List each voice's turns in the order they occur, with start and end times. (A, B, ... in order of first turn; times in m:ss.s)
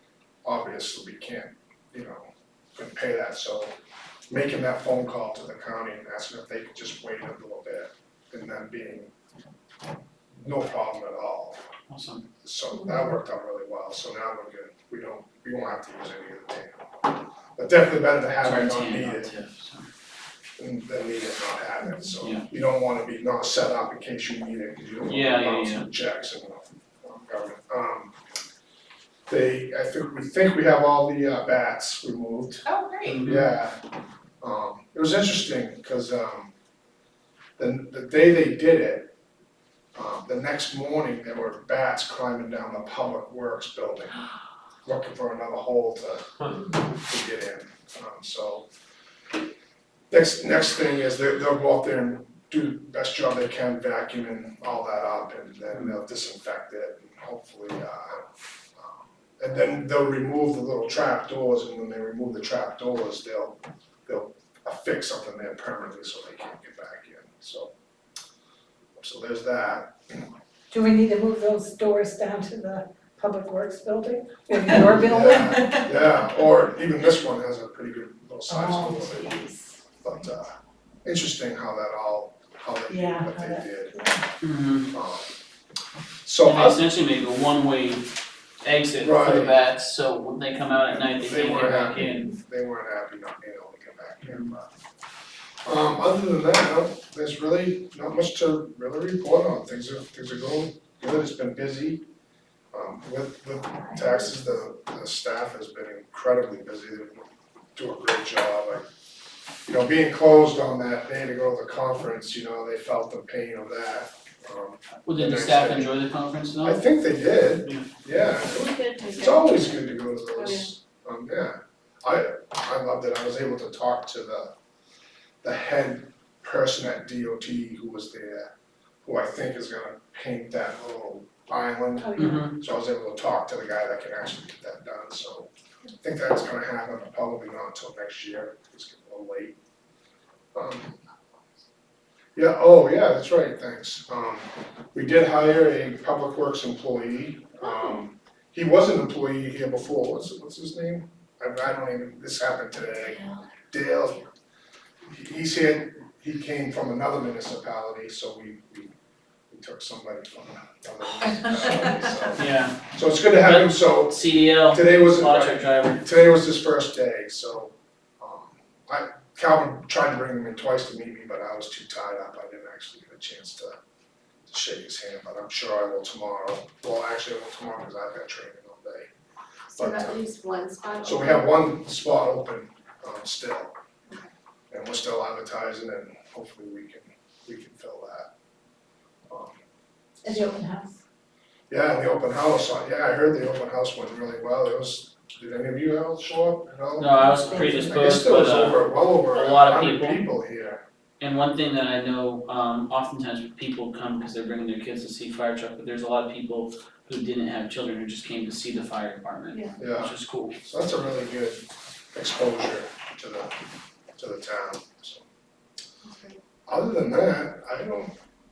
0:00.4-0:03.7 A
0:04.3-0:09.1 A
0:10.4-0:11.6 A
0:11.9-0:12.2 B
0:12.4-0:16.9 A
0:17.6-0:19.3 A
0:18.4-0:19.9 B
0:20.6-0:28.2 A
0:22.2-0:22.4 B
0:25.1-0:25.9 B
0:29.3-0:33.8 A
0:32.7-0:33.2 C
0:33.0-0:33.5 B
0:34.4-0:36.5 A
0:37.6-0:39.1 A
0:40.0-0:44.2 A
0:44.8-0:48.7 A
0:50.1-1:07.7 A
1:09.0-1:10.3 A
1:10.7-1:15.9 D
1:14.8-1:23.9 A
1:18.5-1:19.7 D
1:22.9-1:24.2 D
1:24.4-1:24.9 B
1:24.9-1:25.3 A
1:26.2-1:26.9 A
1:26.4-1:28.1 B
1:28.6-1:32.3 B
1:29.0-1:29.6 A
1:30.9-1:34.7 A
1:35.6-1:42.0 A
1:42.7-1:48.9 A
1:49.6-1:55.9 A
1:55.0-1:56.8 B
1:56.6-2:04.5 A
1:58.7-1:59.8 C
2:00.3-2:00.6 C
2:05.4-2:08.5 A
2:09.0-2:19.6 A
2:12.0-2:12.5 D
2:12.2-2:12.5 B
2:20.5-2:21.0 A
2:22.4-2:34.3 A
2:35.1-2:38.9 A
2:39.5-2:53.8 A
2:42.4-2:42.8 B
2:43.3-2:46.0 B
2:54.5-2:59.1 A
2:59.7-3:01.5 C
2:59.8-3:00.2 A
3:01.0-3:03.7 A
3:04.7-3:08.3 A
3:09.3-3:09.6 A
3:10.2-3:11.0 D
3:11.7-3:20.8 A
3:17.0-3:20.2 B
3:17.3-3:18.1 D
3:21.2-3:30.6 B
3:29.8-3:33.6 A
3:34.2-3:35.3 A
3:36.0-3:36.4 C
3:36.7-3:38.1 A